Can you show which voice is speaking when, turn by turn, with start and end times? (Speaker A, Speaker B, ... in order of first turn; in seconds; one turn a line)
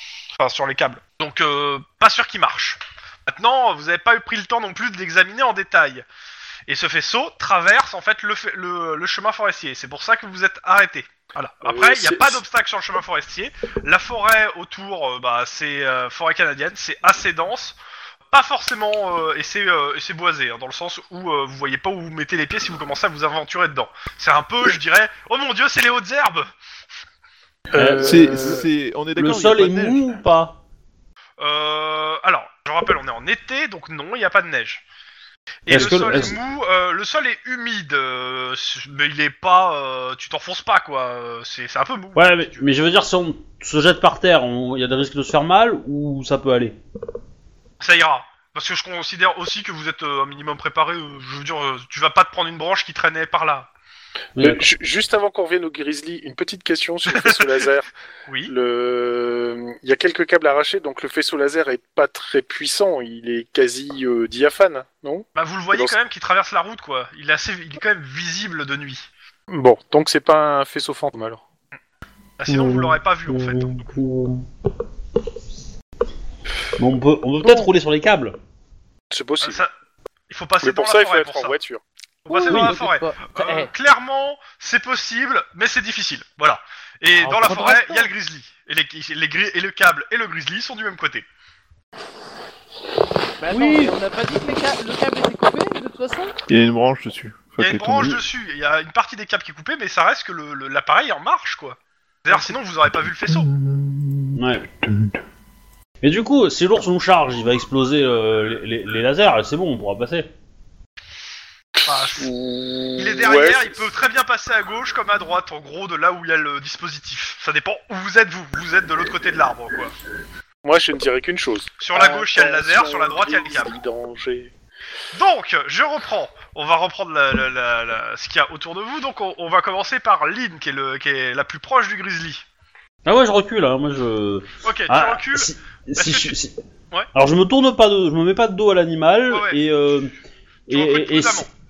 Speaker A: 0.4-6.0
Speaker A: 6.7-17.8
Speaker B: 11.6-12.4
Speaker A: 18.3-26.5
Speaker B: 27.7-28.6
Speaker C: 27.8-28.6
Speaker D: 28.0-30.0
Speaker C: 29.2-30.6
Speaker A: 31.4-34.8
Speaker A: 35.7-42.6
Speaker C: 35.7-36.4
Speaker C: 42.2-46.8
Speaker A: 47.8-53.7
Speaker C: 54.4-54.7
Speaker B: 54.4-57.9
Speaker A: 57.1-57.6
Speaker A: 58.3-58.5
Speaker B: 58.4-66.0
Speaker A: 65.3-69.1
Speaker B: 69.5-71.4
Speaker A: 72.4-74.0
Speaker C: 76.8-78.4
Speaker B: 79.1-79.6
Speaker A: 79.4-79.7
Speaker A: 80.3-81.5
Speaker B: 80.6-81.8
Speaker A: 82.2-91.2
Speaker E: 82.3-83.7
Speaker E: 87.2-88.1
Speaker C: 87.4-87.8
Speaker E: 93.4-96.4
Speaker A: 93.5-93.9
Speaker D: 96.5-98.2
Speaker A: 97.6-103.5
Speaker D: 103.2-105.2
Speaker C: 104.4-104.7
Speaker C: 106.0-110.3
Speaker B: 111.8-113.8
Speaker A: 111.9-112.3
Speaker A: 113.0-119.9
Speaker B: 120.6-124.5
Speaker A: 121.8-123.8
Speaker A: 125.1-132.4
Speaker C: 133.1-136.6
Speaker A: 134.6-136.4
Speaker C: 137.1-140.1
Speaker A: 139.3-139.6
Speaker C: 140.7-141.5
Speaker A: 140.7-141.5